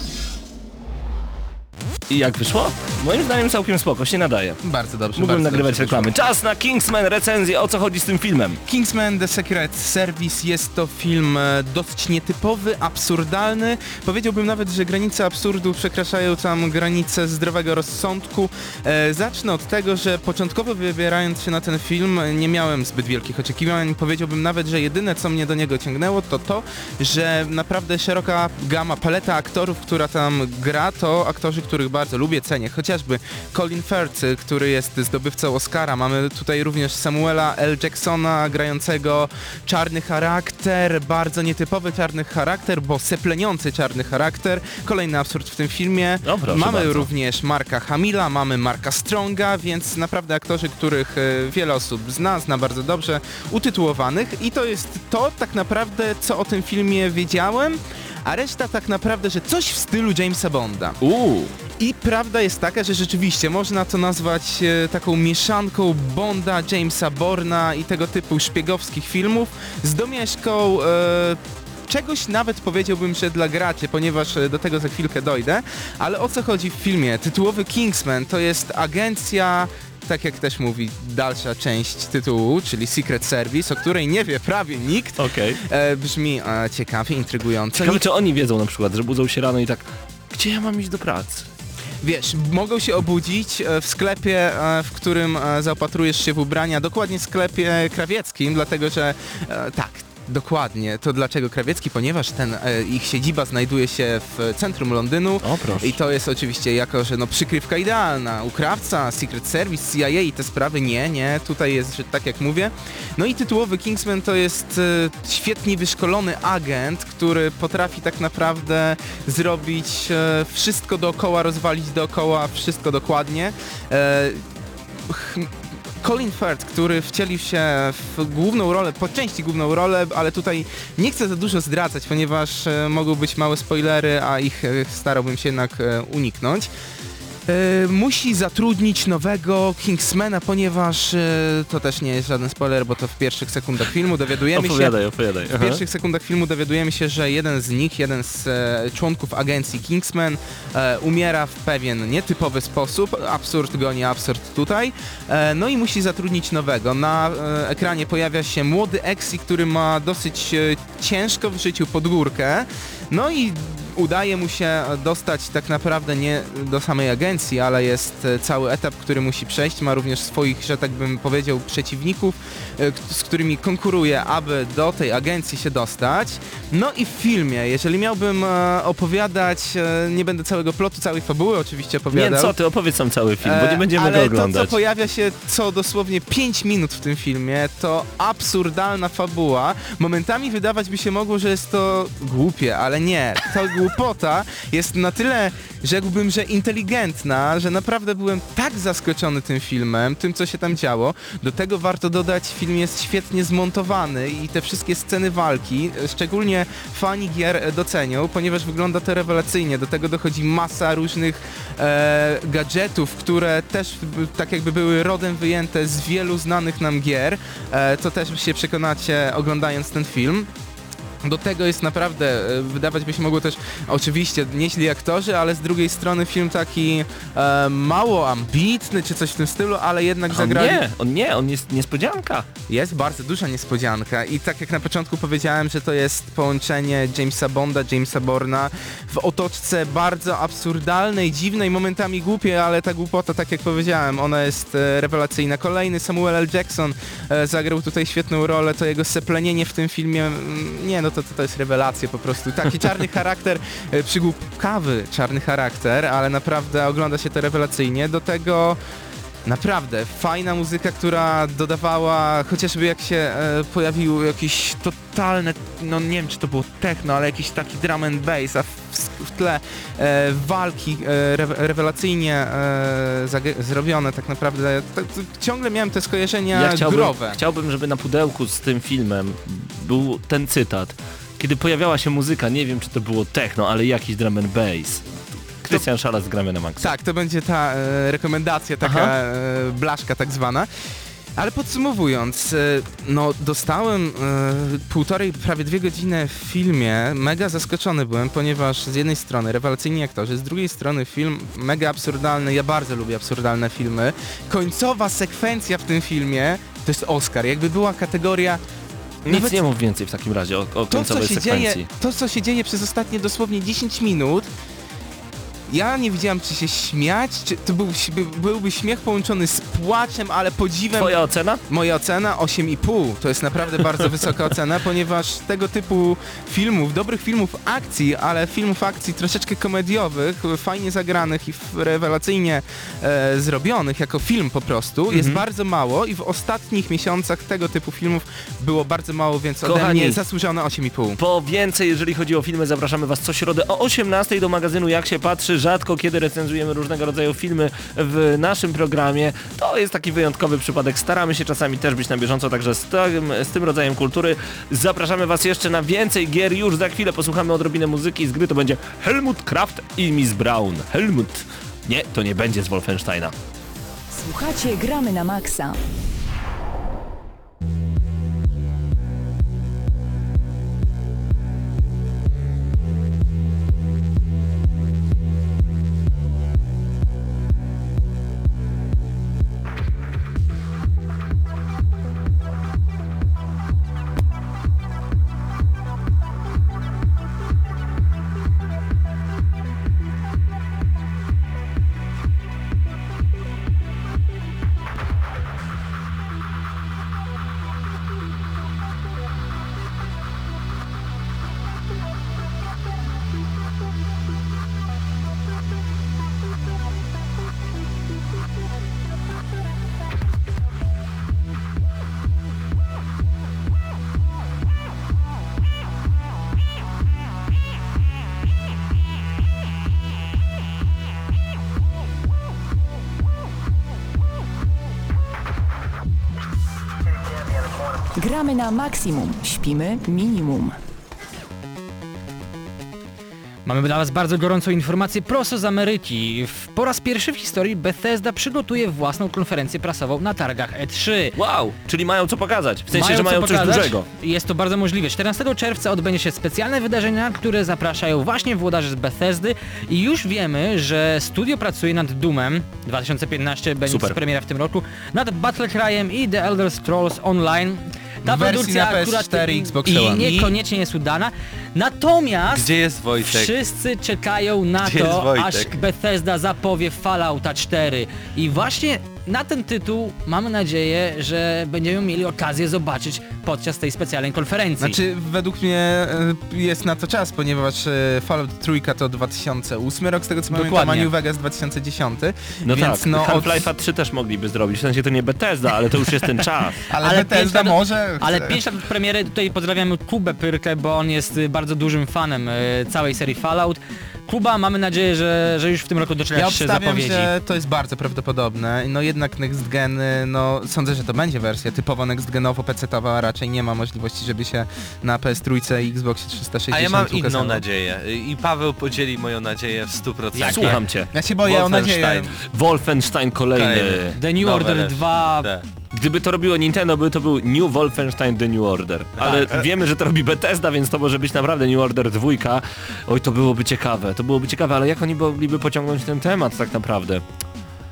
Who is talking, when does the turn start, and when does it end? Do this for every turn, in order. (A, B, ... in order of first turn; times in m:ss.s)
0:02.1-0:04.6 A
0:04.6-0:06.1 B
0:05.2-0:08.6 A
0:08.6-1:01.0 B
0:46.2-0:47.1 A
1:01.0-1:01.5 A
1:01.8-1:28.0 B
1:25.2-1:25.6 A
1:27.8-1:31.4 A
1:32.0-2:16.7 B
1:45.4-1:46.0 A
2:17.5-3:02.5 B
2:24.5-2:25.8 A
3:02.1-3:04.7 A
3:03.4-3:40.5 B
3:41.2-3:50.8 B
3:50.3-3:52.5 A
3:52.7-4:18.8 B
4:19.4-4:37.4 B
4:36.5-4:45.1 A
4:45.6-4:46.9 A
4:46.8-4:50.7 B
4:48.8-4:49.1 A
4:51.4-5:08.6 B
5:09.2-5:11.8 A
5:09.3-5:09.6 B
5:10.9-5:14.5 B
5:15.7-5:21.2 B
5:20.9-5:21.6 A
5:21.7-5:41.2 B
5:39.6-5:40.2 A
5:41.2-6:03.3 A
6:04.1-6:05.8 C
7:08.1-7:10.8 C
7:13.6-7:21.4 D
7:21.4-7:24.0 A
7:22.9-7:42.7 D
7:33.9-7:34.2 A
7:38.2-7:40.5 B
7:42.5-7:43.6 E
7:43.2-7:55.0 D
7:44.8-7:45.7 E
7:54.8-8:03.7 B
8:00.5-8:01.1 D
8:02.6-8:06.8 A
8:06.9-8:08.6 B
8:07.0-8:17.3 D
8:16.3-8:27.6 B
8:26.7-8:30.8 E
8:30.3-8:30.8 D
8:30.4-8:34.2 A
8:31.1-8:32.3 B
8:33.5-8:35.6 E
8:34.2-8:35.5 D
8:35.9-8:47.2 A
8:39.2-8:39.6 E
8:39.2-8:39.5 D